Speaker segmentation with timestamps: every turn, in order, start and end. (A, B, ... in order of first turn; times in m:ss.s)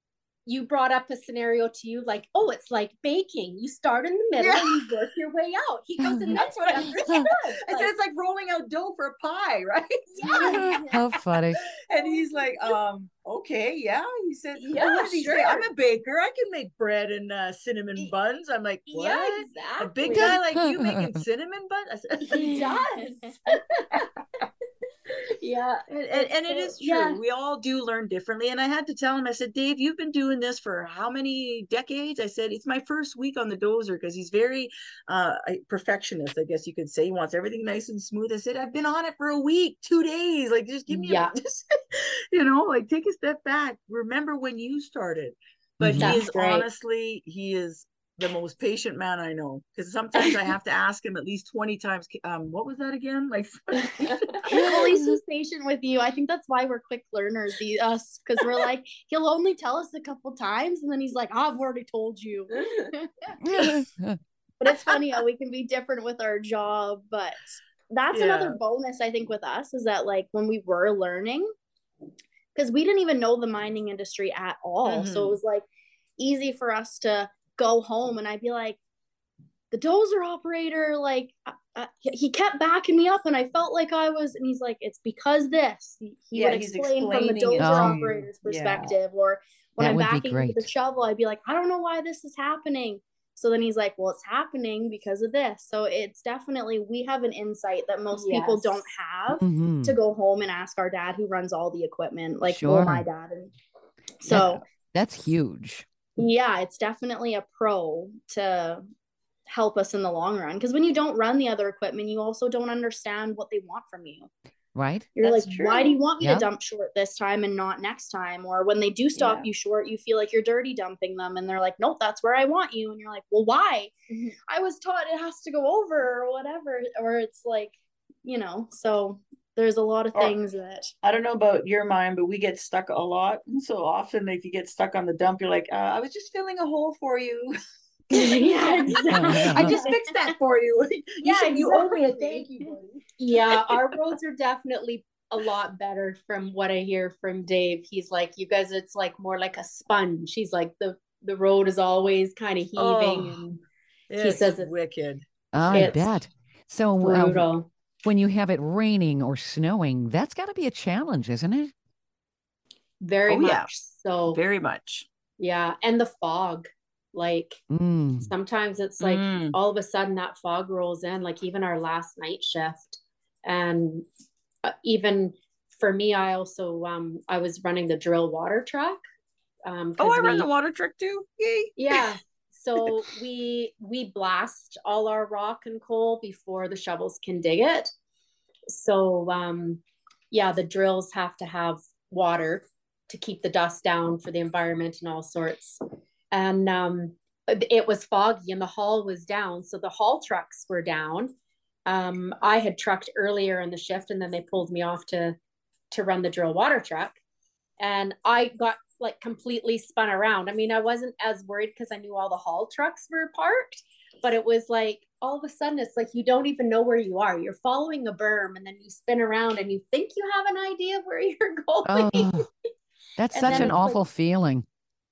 0:00.4-0:07.9 A
0:04.3-0:04.9 B
0:06.0-0:06.3 C
0:06.2-0:10.9 B
0:10.2-0:10.9 A
0:10.4-0:11.6 C
0:11.5-0:22.8 B
0:12.0-0:12.8 A
0:14.6-0:15.7 A
0:18.9-0:20.4 A
0:20.1-0:21.2 C
0:22.3-0:24.0 A
0:25.4-0:27.2 A
0:25.9-0:54.4 B
0:40.9-0:41.3 A
0:45.8-0:46.2 C
0:46.0-0:46.7 A
0:54.0-0:54.4 A
0:54.4-1:03.3 D
0:54.6-0:55.2 C
1:03.4-1:04.2 C
1:04.6-1:11.5 D
1:08.1-1:08.6 B
1:12.5-1:15.6 D
1:14.8-1:15.4 B
1:16.2-1:18.8 D
1:19.7-1:43.5 D
1:26.3-1:28.9 B
1:27.6-1:28.0 C
1:29.8-1:30.7 C
1:38.1-1:38.9 A
1:39.4-1:40.0 C
1:42.5-1:43.0 C
1:44.2-1:44.6 D
1:44.3-1:45.8 C
1:46.2-1:48.8 D
1:49.5-1:54.3 D
1:54.7-1:55.1 C
1:55.2-1:56.0 B
1:55.2-2:07.7 D
1:56.2-1:56.5 C
1:59.2-1:59.5 B
2:08.2-2:10.9 D
2:11.0-2:17.5 B
2:18.1-2:20.0 D
2:18.1-2:23.8 B
2:18.2-2:20.0 A
2:19.1-2:19.7 C
2:21.2-2:21.9 D
2:21.2-2:22.4 A
2:23.2-2:33.6 A
2:32.8-2:33.4 B
2:34.1-2:36.0 B
2:34.2-2:34.7 A
2:35.5-2:37.5 C
2:35.7-2:36.1 A
2:37.0-2:37.7 A
2:38.0-2:41.7 C
2:43.0-2:44.4 A
2:43.3-2:43.7 B
2:44.3-2:45.0 B
2:45.4-2:47.6 A
2:47.7-2:48.3 C
2:48.2-2:54.0 A
2:49.0-2:49.6 B
2:54.6-2:59.0 A
2:59.6-3:00.5 A
3:00.0-3:02.1 B
3:01.8-3:07.9 A
3:08.7-3:21.3 A
3:21.8-3:25.4 A
3:25.9-3:27.2 A
3:27.8-3:42.5 A
3:41.8-3:42.4 C
3:43.2-3:44.6 C
3:43.3-3:44.0 A